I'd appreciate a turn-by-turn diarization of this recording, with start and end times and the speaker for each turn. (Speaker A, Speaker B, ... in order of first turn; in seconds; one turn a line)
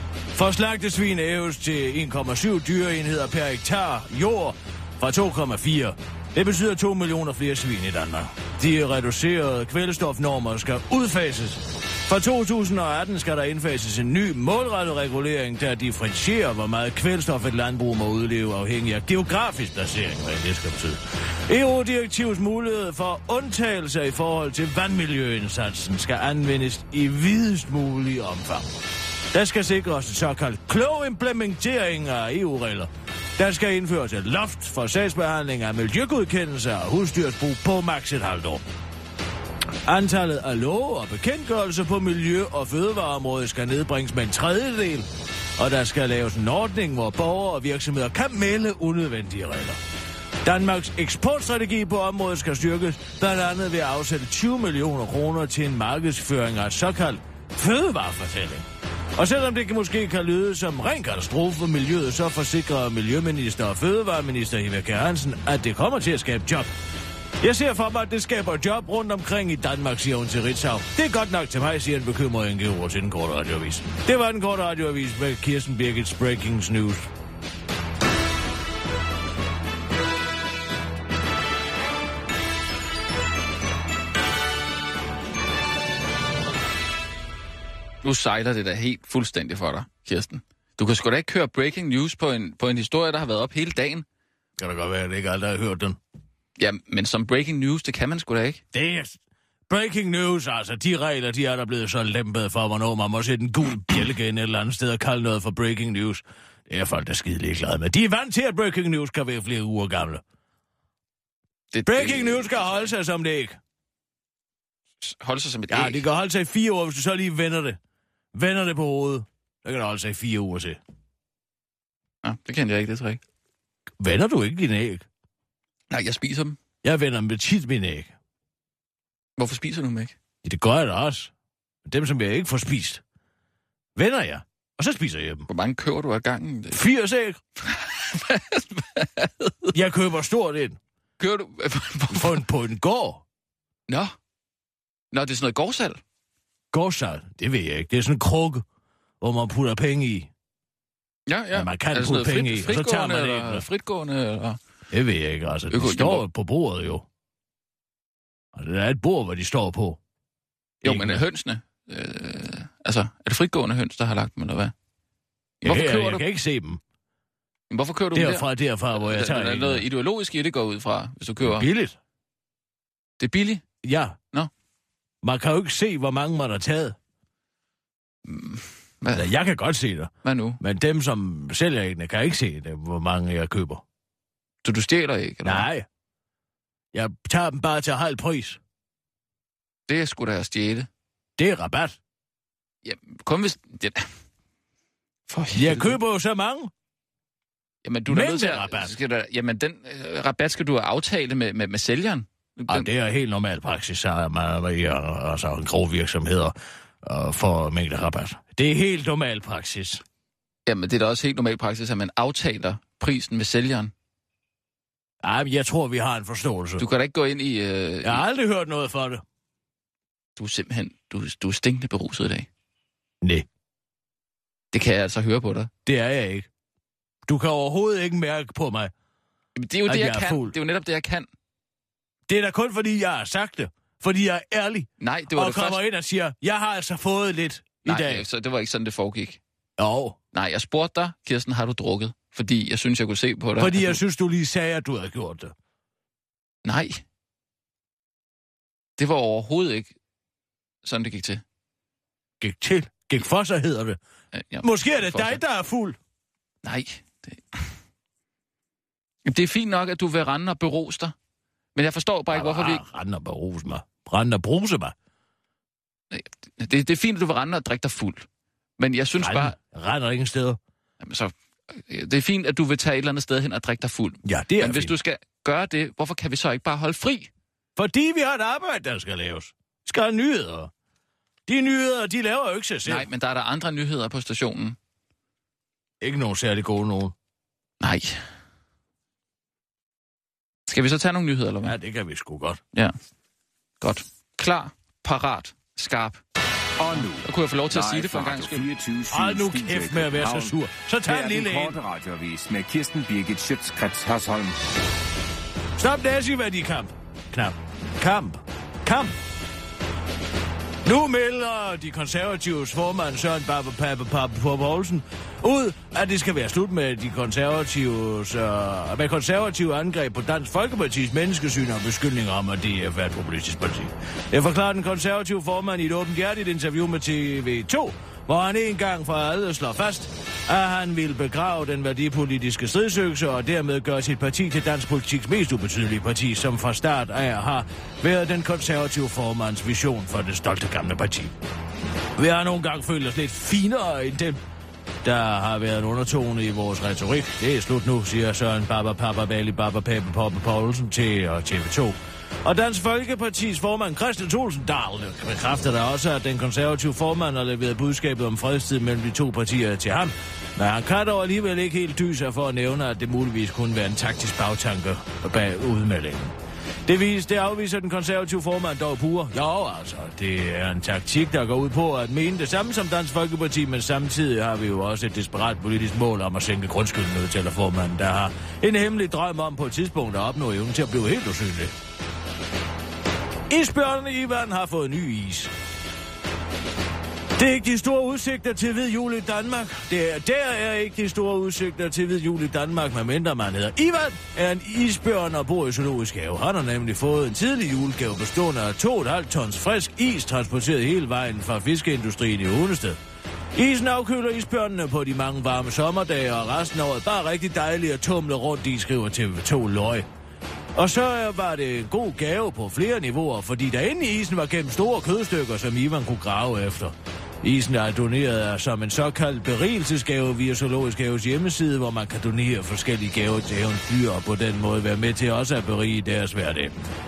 Speaker A: 0.3-28.7
Speaker A: 29.3-38.6
Speaker A: 39.9-45.1
Speaker A: 45.6-49.8
Speaker A: 50.4-66.7
Speaker A: 67.4-77.1
Speaker B: 88.0-94.0
Speaker A: 94.6-96.0
Speaker B: 96.6-98.6
Speaker A: 98.7-99.2
Speaker A: 99.7-110.2
Speaker B: 111.7-112.9
Speaker A: 111.9-113.6
Speaker B: 115.0-116.0
Speaker A: 115.7-117.8
Speaker A: 118.3-120.8
Speaker B: 122.2-123.2
Speaker A: 124.0-125.1
Speaker B: 125.9-126.6
Speaker A: 126.8-128.1
Speaker B: 129.4-130.2
Speaker A: 130.4-131.3
Speaker A: 131.8-133.0
Speaker A: 134.0-135.5
Speaker B: 135.5-136.8
Speaker A: 136.7-137.4
Speaker B: 137.7-139.7
Speaker A: 139.7-140.8
Speaker B: 141.2-142.4
Speaker A: 142.1-143.2
Speaker B: 143.9-144.1
Speaker B: 145.1-146.0
Speaker A: 146.7-148.6
Speaker A: 149.2-150.3
Speaker B: 151.3-154.6
Speaker A: 151.5-153.7
Speaker A: 154.9-157.1
Speaker B: 155.7-156.3
Speaker A: 158.5-160.0
Speaker A: 160.8-161.2
Speaker B: 160.8-164.7
Speaker B: 165.6-166.3
Speaker A: 165.6-166.8
Speaker B: 167.7-171.7
Speaker A: 168.1-169.8
Speaker A: 171.4-172.0
Speaker B: 173.2-173.6
Speaker A: 173.8-174.2
Speaker A: 175.2-177.0
Speaker B: 178.3-179.3
Speaker A: 179.2-183.8
Speaker B: 180.2-180.6
Speaker B: 184.6-185.7
Speaker A: 185.4-185.9
Speaker A: 186.9-188.6
Speaker B: 189.9-190.9
Speaker A: 191.4-192.0
Speaker B: 192.8-194.1
Speaker B: 195.3-196.0
Speaker A: 195.5-196.7
Speaker B: 197.8-202.9
Speaker A: 198.1-198.9
Speaker A: 202.7-210.0
Speaker B: 210.7-213.9
Speaker A: 215.2-216.9
Speaker B: 216.8-218.2
Speaker A: 218.0-219.2
Speaker B: 220.4-222.5
Speaker B: 224.7-225.7
Speaker A: 225.9-226.5
Speaker A: 227.3-228.9
Speaker B: 229.6-231.3
Speaker A: 229.9-230.6
Speaker A: 232.3-238.2
Speaker B: 235.0-235.8
Speaker B: 237.8-239.4
Speaker A: 239.8-240.2
Speaker B: 240.3-244.0
Speaker A: 243.6-245.5
Speaker B: 246.7-247.0
Speaker B: 249.0-249.9
Speaker B: 250.8-251.4
Speaker A: 252.4-254.0
Speaker B: 254.3-255.4
Speaker A: 254.6-256.0
Speaker B: 256.6-257.7
Speaker B: 259.2-261.1
Speaker B: 261.8-262.8
Speaker A: 262.3-264.9
Speaker B: 266.1-268.3
Speaker B: 268.8-269.6
Speaker A: 269.2-270.6
Speaker B: 271.0-277.3
Speaker A: 274.2-275.0
Speaker A: 277.8-280.7
Speaker A: 281.5-283.1
Speaker B: 282.9-284.8
Speaker A: 286.0-287.1
Speaker B: 287.8-288.2
Speaker B: 290.7-291.8
Speaker A: 291.6-292.6
Speaker B: 293.8-296.2
Speaker C: 296.8-304.6
Speaker B: 297.2-298.7
Speaker A: 299.1-301.8
Speaker A: 305.8-309.1
Speaker A: 310.8-341.3
Speaker A: 342.2-344.4
Speaker A: 345.0-366.3
Speaker A: 366.9-381.7
Speaker A: 383.5-385.5
Speaker A: 387.4-403.0
Speaker A: 403.6-410.1
Speaker A: 410.8-426.7